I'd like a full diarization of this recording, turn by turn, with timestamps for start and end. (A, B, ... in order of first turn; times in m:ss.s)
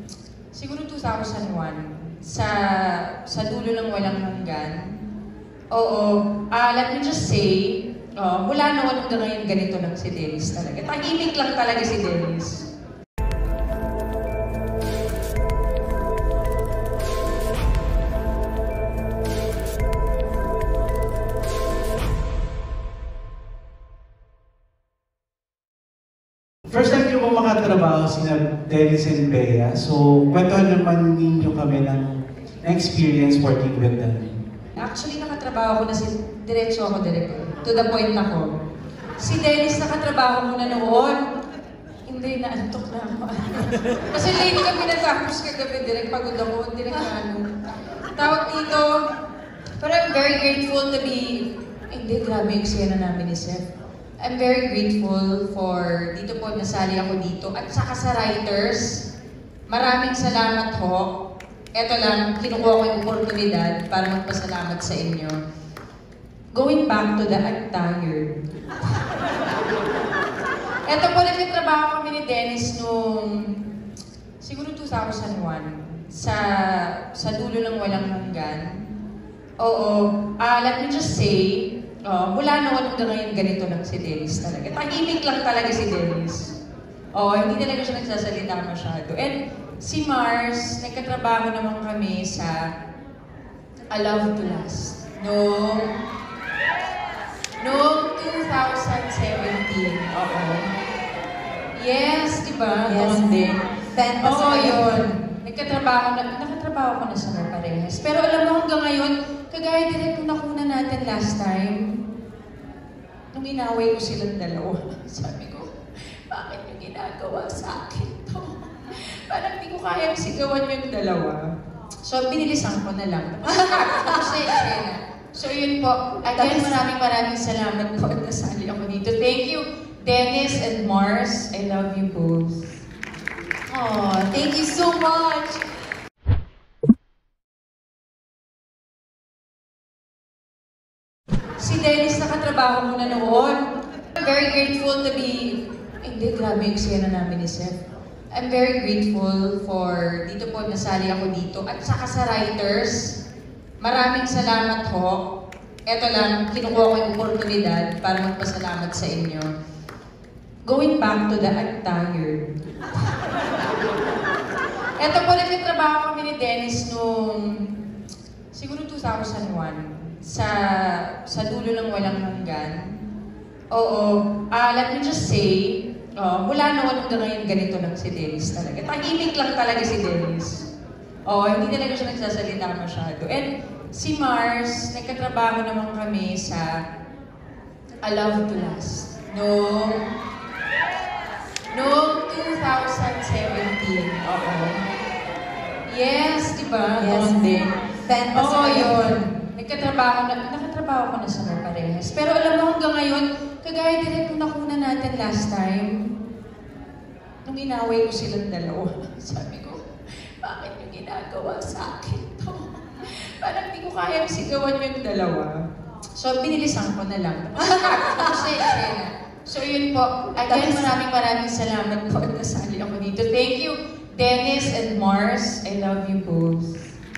0:00.5-0:05.1 A
0:05.7-0:12.7 A
0:26.7-0:34.4 B
0:34.8-0:38.5 A
0:39.2-0:41.2 A
0:42.0-0:47.5 A
0:48.1-0:48.9 A
0:49.8-0:53.7 A
0:54.2-0:59.0 A
0:59.7-1:01.0 A
1:01.8-1:05.4 A
1:06.5-1:09.2 A
1:10.9-1:13.6 A
1:14.4-1:18.9 A
1:19.6-1:26.6 A
1:27.1-1:32.6 A
1:33.9-1:35.9 A
1:37.6-1:40.7 A
1:41.8-1:43.6 A
1:42.8-1:44.8 C
1:44.2-1:52.0 A
1:53.3-1:55.7 A
1:56.3-2:01.4 A
2:02.0-2:12.8 A
2:03.7-2:04.5 C
2:06.4-2:06.8 C
2:13.7-2:15.7 C
2:21.6-2:23.6 A
2:24.1-2:27.8 A
2:28.3-2:33.0 A
2:33.8-2:35.2 A
2:35.9-2:39.5 A
2:40.6-2:43.2 A
2:45.0-2:47.8 A
2:48.5-2:53.1 A
2:53.7-3:00.7 A
3:01.3-3:06.7 A
3:08.0-3:10.0 A
3:11.7-3:14.8 A
3:15.9-3:17.7 A
3:17.0-3:19.0 C
3:18.3-3:26.2 A
3:27.4-3:29.8 A
3:30.4-3:35.5 A
3:36.2-3:46.9 A
3:37.8-3:38.6 C
3:40.5-3:40.9 C